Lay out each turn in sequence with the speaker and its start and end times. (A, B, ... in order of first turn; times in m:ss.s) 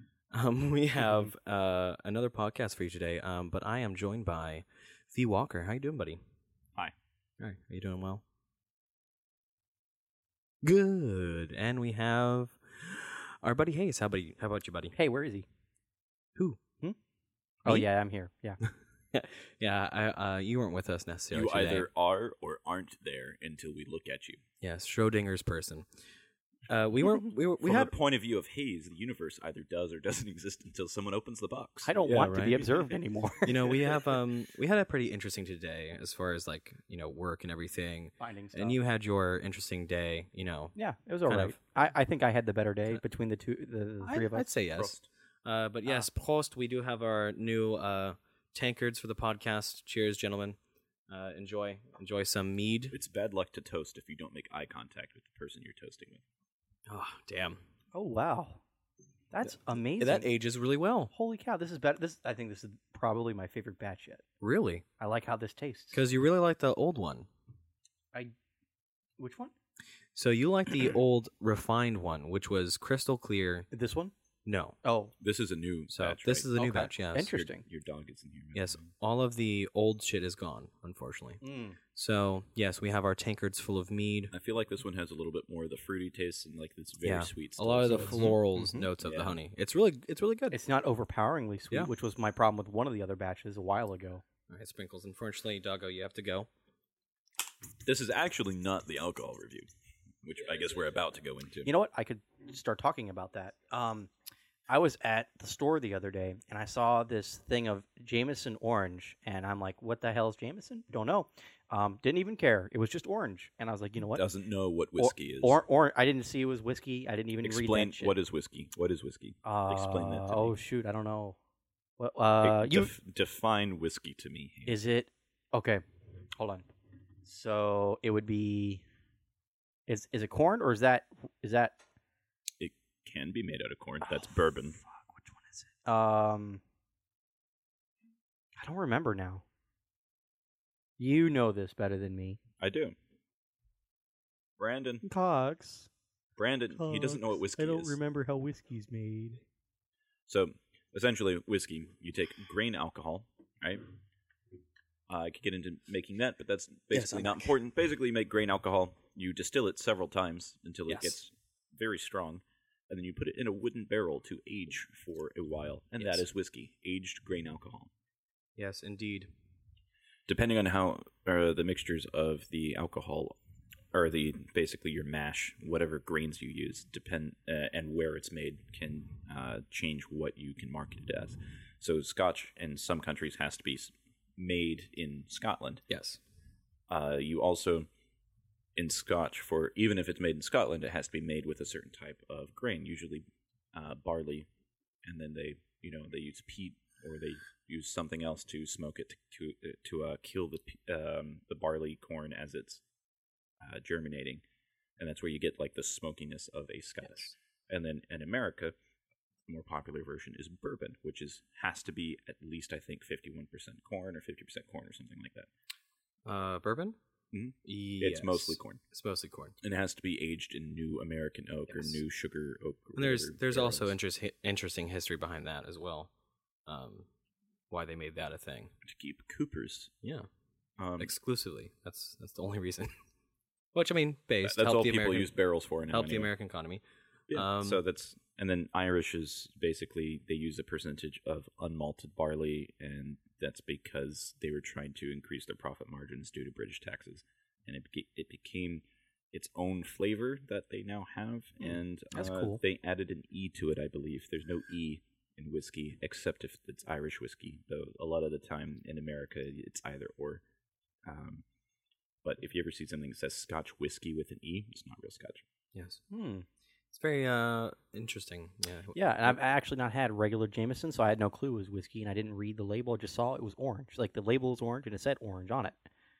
0:00.3-0:06.2 A
0:07.4-0:08.2 A
0:10.6-0:14.9 A
0:14.9-0:15.5 B
0:17.6-0:18.6 B
0:18.6-0:21.9 A
0:21.3-0:24.4 C
0:24.6-0:25.9 A
0:26.7-0:27.9 A
0:27.6-0:31.9 C
0:31.8-0:33.9 B
0:32.0-0:32.7 A
0:33.4-0:40.7 A
0:38.2-0:38.8 B
0:40.7-0:44.5 B
0:41.3-0:41.6 A
0:44.0-0:50.6 A
0:44.7-0:45.1 C
0:51.1-0:53.0 A
0:52.9-0:56.2 C
0:56.9-0:57.6 A
0:57.9-0:58.6 B
0:59.3-1:00.3 B
1:00.0-1:01.1 A
1:01.1-1:04.2 B
1:04.4-1:04.8 A
1:05.0-1:06.0 B
1:05.9-1:07.3 A
1:09.2-1:09.5 B
1:10.1-1:13.7 A
1:13.7-1:14.1 B
1:14.4-1:14.8 A
1:14.8-1:15.1 B
1:15.2-1:16.5 C
1:15.9-1:17.5 A
1:16.6-1:17.6 B
1:17.4-1:18.9 C
1:18.5-1:21.4 A
1:21.4-1:21.8 B
1:21.9-1:24.3 A
1:24.3-1:28.4 C
1:27.0-1:30.6 A
1:27.8-1:28.9 B
1:29.0-1:29.4 C
1:30.5-1:34.2 B
1:34.5-1:36.5 A
1:37.8-1:39.7 C
1:40.2-1:41.7 C
1:41.6-1:44.1 B
1:44.7-1:54.2 B
1:54.1-1:55.6 C
1:55.0-1:58.1 B
1:57.4-2:00.5 C
1:59.4-2:01.4 B
2:02.0-2:02.9 B
2:02.4-2:04.8 C
2:04.7-2:05.8 B
2:06.3-2:06.6 B
2:07.2-2:08.8 B
2:09.9-2:11.8 B
2:12.6-2:14.8 C
2:14.0-2:14.8 B
2:15.8-2:16.6 B
2:18.6-2:19.4 B
2:21.0-2:22.4 B
2:22.6-2:23.0 C
2:24.6-2:25.0 C
2:25.0-2:25.9 B
2:26.4-2:28.0 C
2:26.8-2:29.4 B
2:30.3-2:33.8 C
2:35.1-2:47.9 C
2:36.9-2:37.5 A
2:40.9-2:41.2 A
2:46.0-2:46.2 A
2:48.6-2:49.3 A
2:50.3-2:53.4 C
2:53.9-3:05.8 C
3:05.9-3:06.2 A
3:06.9-3:07.9 C
3:08.8-3:14.5 C
3:15.0-3:22.8 C
3:23.6-3:24.4 C
3:25.0-3:28.7 C
3:29.5-3:35.5 C
3:36.2-3:37.0 A
3:37.3-3:38.8 C
3:37.6-3:39.5 A
3:39.6-3:43.9 C
3:41.7-3:42.0 A
3:43.0-3:46.1 A
3:46.6-3:47.1 A
3:47.7-3:48.7 A
3:48.8-3:49.9 C
3:50.0-3:50.3 A
3:50.8-3:51.1 C
3:51.0-3:52.9 A
3:53.7-3:55.3 A
3:54.4-3:56.3 C
3:55.9-3:57.8 A
3:57.3-4:20.4 C
4:11.6-4:12.6 B
4:21.0-4:21.4 C
4:22.2-4:25.4 C
4:25.7-4:26.0 A
4:26.1-4:26.4 B
4:26.9-4:29.4 A
4:28.9-4:35.8 B